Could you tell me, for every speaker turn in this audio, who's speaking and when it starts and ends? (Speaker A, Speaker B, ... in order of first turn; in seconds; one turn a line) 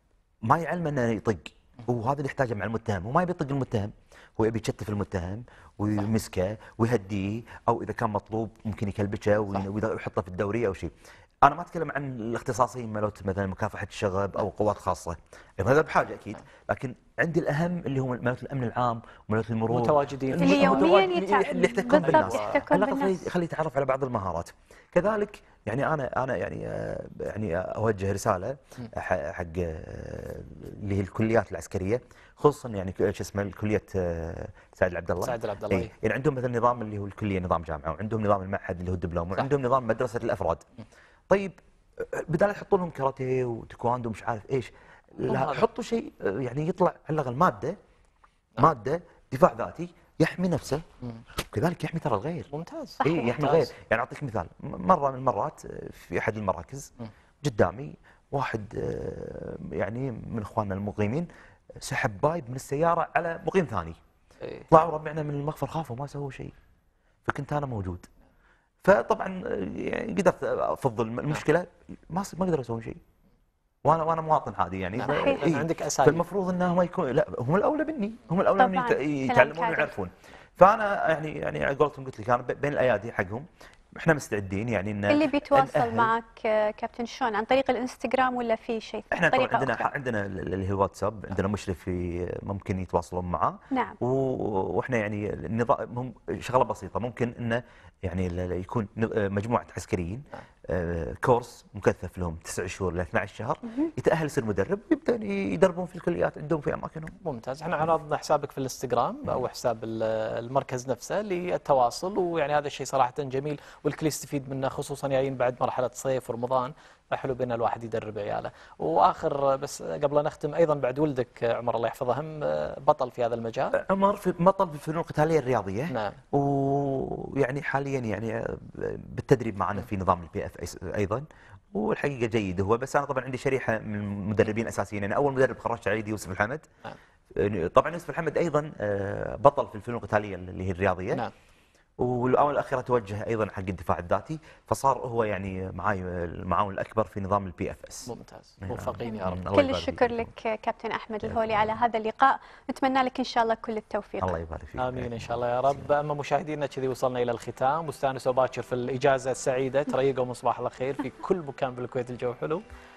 Speaker A: 0.5-10.9
Speaker A: 11.4-40.6
Speaker B: 19.7-21.1
Speaker C: 20.4-23.3
Speaker B: 21.9-22.7
Speaker B: 35.2-35.9
Speaker A: 41.3-47.8
Speaker B: 45.3-45.7
Speaker A: 48.6-50.8
Speaker A: 51.5-52.5
Speaker B: 52.5-53.7
Speaker C: 53.0-53.5
Speaker A: 53.0-56.9
Speaker A: 57.4-61.3
Speaker A: 61.8-64.0
Speaker B: 64.4-64.7
Speaker A: 64.7-66.5
Speaker A: 67.3-68.1
Speaker A: 68.8-73.0
Speaker A: 73.8-86.1
Speaker B: 75.0-76.2
Speaker C: 75.1-75.5
Speaker C: 78.6-79.9
Speaker C: 85.1-89.9
Speaker A: 89.1-107.2
Speaker C: 93.7-94.0
Speaker B: 107.2-123.8
Speaker A: 123.8-136.7
Speaker B: 125.9-126.2
Speaker A: 137.3-141.2
Speaker A: 142.0-148.1
Speaker B: 148.1-149.4
Speaker A: 148.6-150.3
Speaker C: 149.1-154.3
Speaker A: 154.2-155.4
Speaker B: 154.8-162.6